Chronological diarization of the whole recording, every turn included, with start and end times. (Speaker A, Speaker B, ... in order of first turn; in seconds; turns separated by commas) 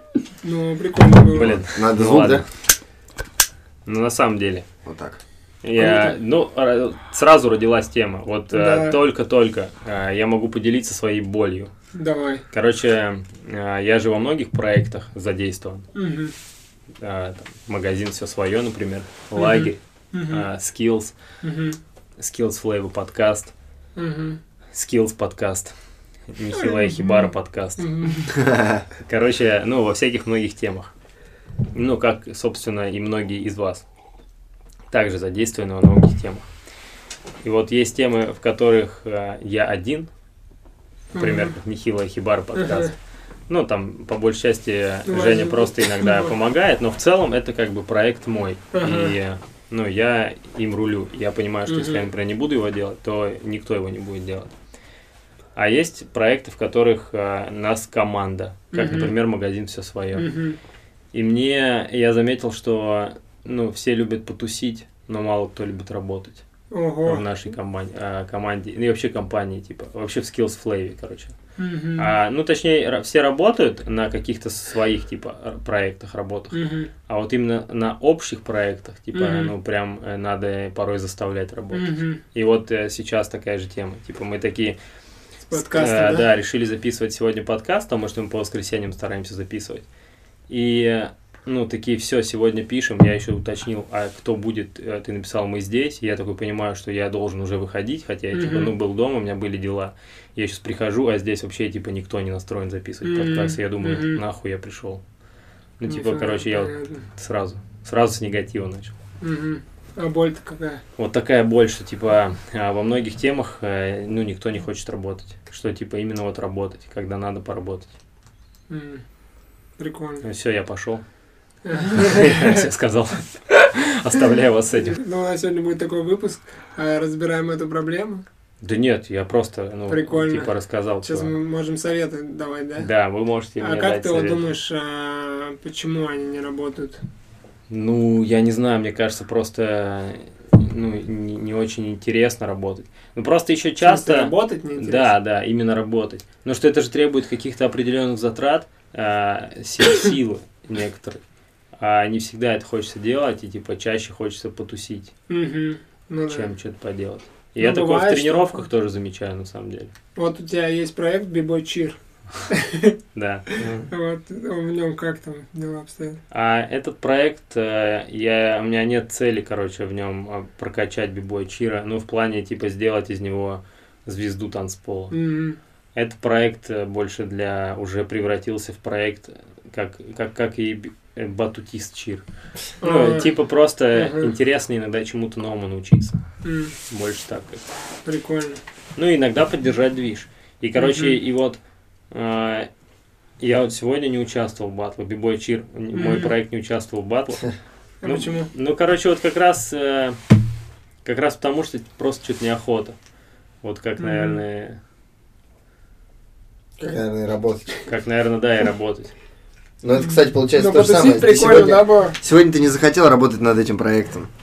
Speaker A: 0.4-1.6, Speaker B: 1.3-2.4, Speaker C: 1.3-2.4, Speaker B: 3.9-4.7, Speaker C: 4.8-5.2, Speaker B: 5.6-11.7, Speaker A: 5.8-6.1, Speaker A: 8.5-9.0, Speaker A: 11.9-12.4, Speaker B: 12.5-15.8, Speaker A: 15.9-16.3, Speaker B: 17.0-21.1, Speaker A: 19.4-20.5, Speaker A: 21.4-21.8, Speaker B: 22.2-23.5, Speaker A: 23.9-24.4, Speaker B: 24.7-25.7, Speaker B: 26.3-28.3, Speaker A: 26.5-28.4, Speaker C: 28.4-28.8, Speaker B: 29.0-30.9, Speaker B: 31.7-33.8, Speaker B: 34.9-36.5, Speaker B: 37.4-40.1, Speaker A: 41.1-41.5, Speaker B: 41.1-42.9, Speaker A: 42.5-42.9, Speaker B: 43.5-54.5, Speaker A: 45.1-46.3, Speaker A: 48.7-49.1, Speaker A: 51.7-52.0, Speaker B: 55.5-60.3, Speaker A: 58.7-59.1, Speaker A: 60.1-60.6, Speaker B: 61.1-66.4, Speaker A: 66.7-67.2, Speaker B: 67.0-71.3, Speaker A: 71.6-72.1, Speaker B: 72.0-84.8, Speaker A: 76.5-76.9, Speaker A: 79.1-79.5, Speaker A: 81.7-82.2, Speaker A: 85.5-86.3, Speaker B: 85.5-89.8, Speaker B: 90.5-105.0, Speaker A: 98.3-98.7, Speaker A: 103.0-104.2, Speaker B: 105.8-108.9, Speaker A: 105.9-107.0, Speaker A: 109.2-110.8, Speaker B: 111.0-117.9, Speaker A: 118.7-119.0, Speaker A: 119.8-120.2, Speaker B: 120.2-121.0, Speaker A: 121.6-122.6, Speaker B: 121.8-125.0, Speaker A: 124.8-128.2, Speaker B: 128.6-131.3, Speaker A: 129.9-132.9, Speaker B: 132.8-134.4, Speaker A: 133.6-137.0, Speaker B: 137.7-151.2, Speaker A: 143.8-145.1, Speaker B: 151.8-155.1, Speaker A: 155.3-156.5, Speaker B: 156.3-159.9, Speaker A: 157.6-158.7, Speaker A: 160.1-162.0, Speaker A: 162.5-163.0, Speaker B: 163.1-163.4, Speaker A: 163.6-166.2, Speaker C: 163.6-163.9, Speaker B: 166.3-175.1, Speaker A: 175.1-175.6, Speaker B: 175.9-182.2, Speaker B: 182.8-186.2, Speaker A: 182.8-183.3, Speaker A: 183.9-184.3, Speaker A: 186.4-186.7, Speaker B: 186.9-187.6, Speaker A: 188.0-188.6, Speaker B: 188.9-191.6, Speaker A: 190.8-191.2, Speaker B: 192.1-192.7, Speaker B: 193.4-197.5, Speaker A: 195.9-196.3, Speaker A: 198.0-198.5, Speaker B: 198.0-200.2, Speaker B: 201.0-202.9, Speaker B: 203.6-204.8, Speaker A: 204.0-204.4, Speaker C: 206.8-207.8, Speaker B: 207.9-209.1, Speaker C: 209.8-214.3, Speaker A: 210.0-212.2